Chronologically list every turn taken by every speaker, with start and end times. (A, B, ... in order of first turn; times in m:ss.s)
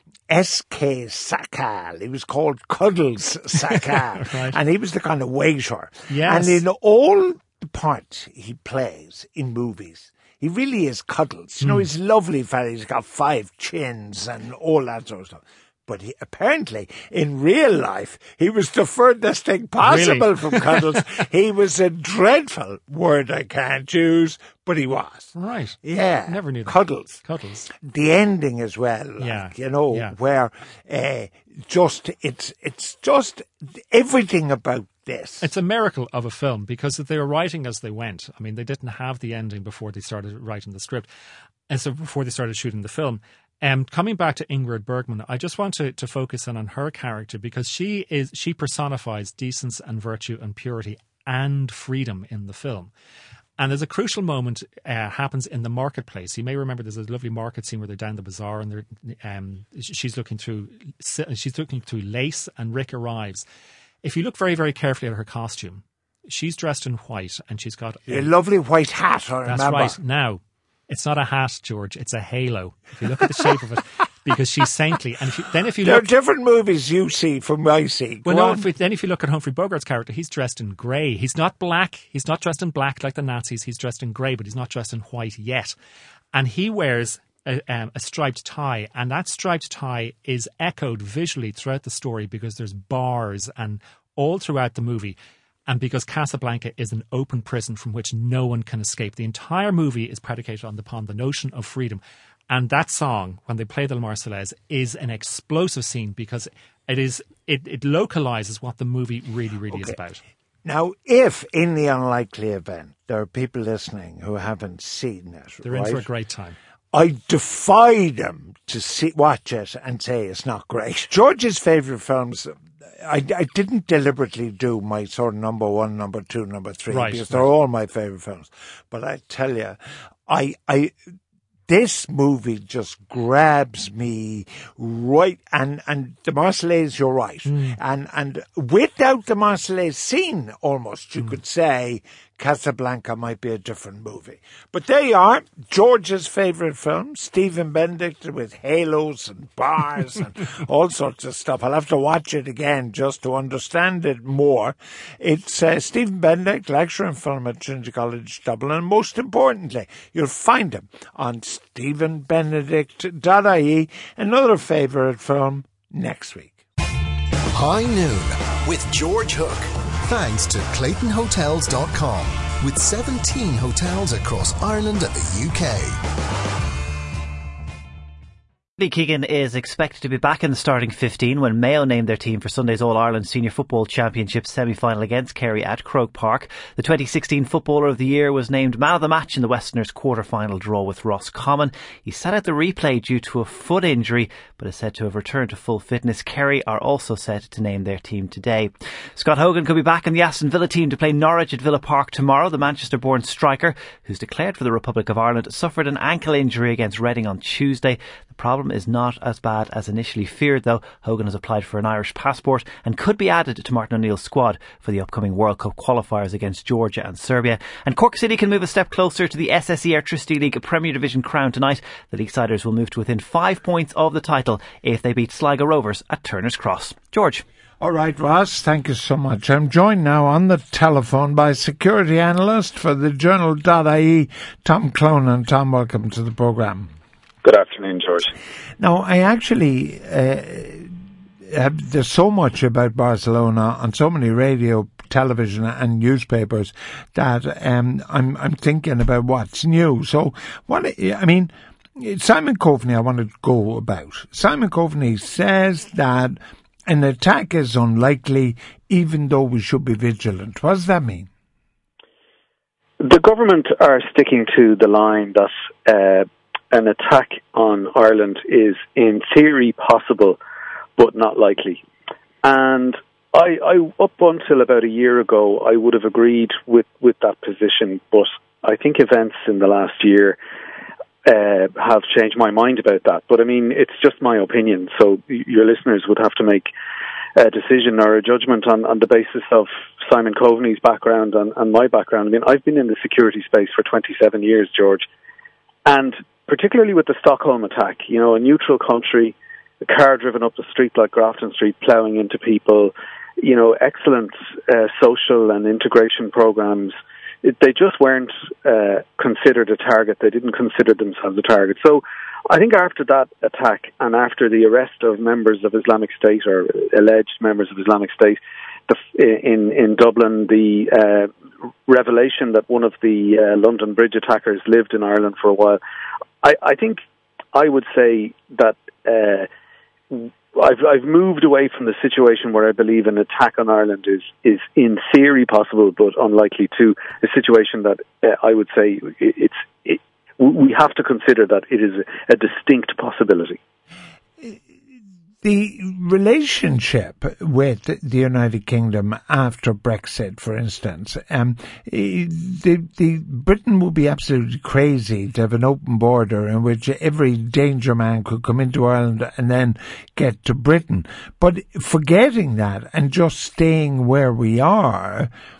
0:00.3-0:35.5 A
0:03.6-0:04.6 B
0:06.1-0:06.6 B
0:11.6-0:11.9 B
0:19.8-0:21.0 B
0:25.4-0:27.6 B
0:29.2-0:30.2 B
0:35.4-0:41.1 B
0:41.7-0:52.9 B
0:53.6-1:03.4 B
1:04.0-1:08.3 B
1:08.1-1:10.0 A
1:09.4-1:16.1 B
1:15.8-1:18.7 A
1:18.2-1:25.8 B
1:26.3-1:35.2 B
1:35.7-1:50.2 B
1:49.7-1:50.0 A
1:50.6-1:56.0 A
1:55.6-1:56.6 B
1:56.9-2:11.0 A
2:06.9-2:07.5 B
2:11.7-2:46.6 A
2:17.5-2:17.8 B
2:47.5-2:56.0 C
2:58.8-3:47.4 D
3:47.8-3:56.9 A
3:57.4-3:58.3 E
3:58.8-4:21.3 A
4:23.0-4:30.4 E
4:31.0-4:31.8 E
4:32.4-4:40.4 E
4:41.2-4:46.7 E
4:47.4-4:55.0 E
4:55.8-5:21.3 E
5:21.9-5:25.8 E
5:26.4-5:27.0 E
5:27.5-5:29.5 E
5:30.1-5:43.6 E
5:45.4-6:05.3 A